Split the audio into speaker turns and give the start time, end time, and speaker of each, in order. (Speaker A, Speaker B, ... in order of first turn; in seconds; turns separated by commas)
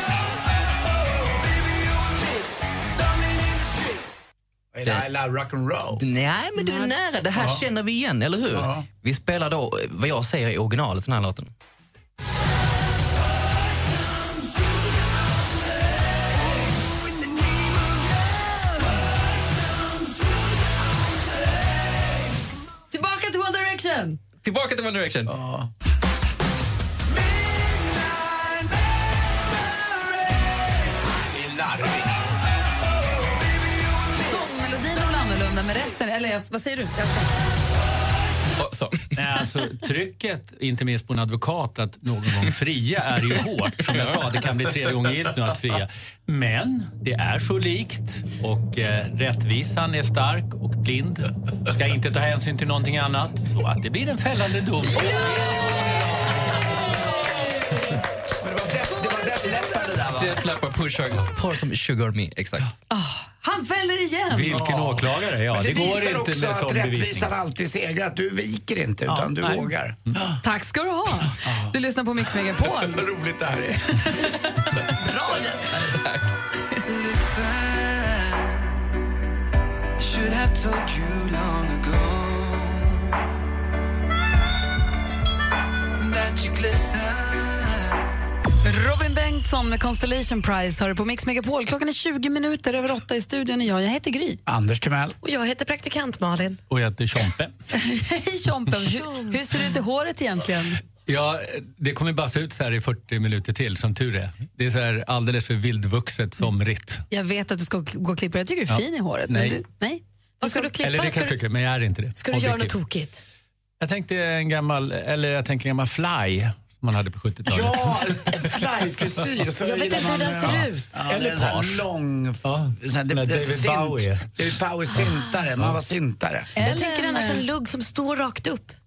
Speaker A: 4.7-6.0, Speaker B: 6.0-11.5, Speaker A: 7.4-7.6, Speaker A: 8.5-8.9, Speaker C: 22.9-24.2, Speaker B: 24.4-25.3, Speaker A: 25.3-25.7, Speaker A: 31.3-32.1, Speaker C: 34.2-37.3, Speaker B: 38.6-39.1, Speaker D: 39.2-56.4, Speaker B: 43.8-44.4, Speaker A: 58.4-60.4, Speaker C: 59.0-59.9, Speaker B: 60.1-62.7, Speaker C: 62.9-64.7, Speaker D: 64.3-67.3, Speaker A: 64.7-70.0, Speaker D: 69.4-69.7, Speaker C: 70.4-73.0, Speaker A: 72.8-73.8, Speaker C: 74.0-74.8, Speaker E: 75.0-76.0, Speaker F: 80.0-81.5, Speaker F: 82.0-82.5, Speaker F: 86.0-87.6, Speaker C: 88.6-94.4, Speaker A: 94.5-95.2, Speaker E: 95.2-96.6, Speaker D: 96.7-97.5, Speaker C: 97.7-100.8, Speaker E: 98.8-99.4, Speaker D: 101.1-107.0, Speaker C: 107.1-110.7, Speaker D: 108.7-109.6, Speaker E: 110.4-111.4, Speaker D: 110.8-112.7, Speaker E: 112.2-113.2, Speaker D: 113.8-118.2, Speaker A: 117.5-126.5, Speaker E: 119.6-121.0, Speaker D: 121.0-121.8, Speaker D: 122.5-124.3, Speaker C: 126.6-127.5, Speaker E: 126.6-128.8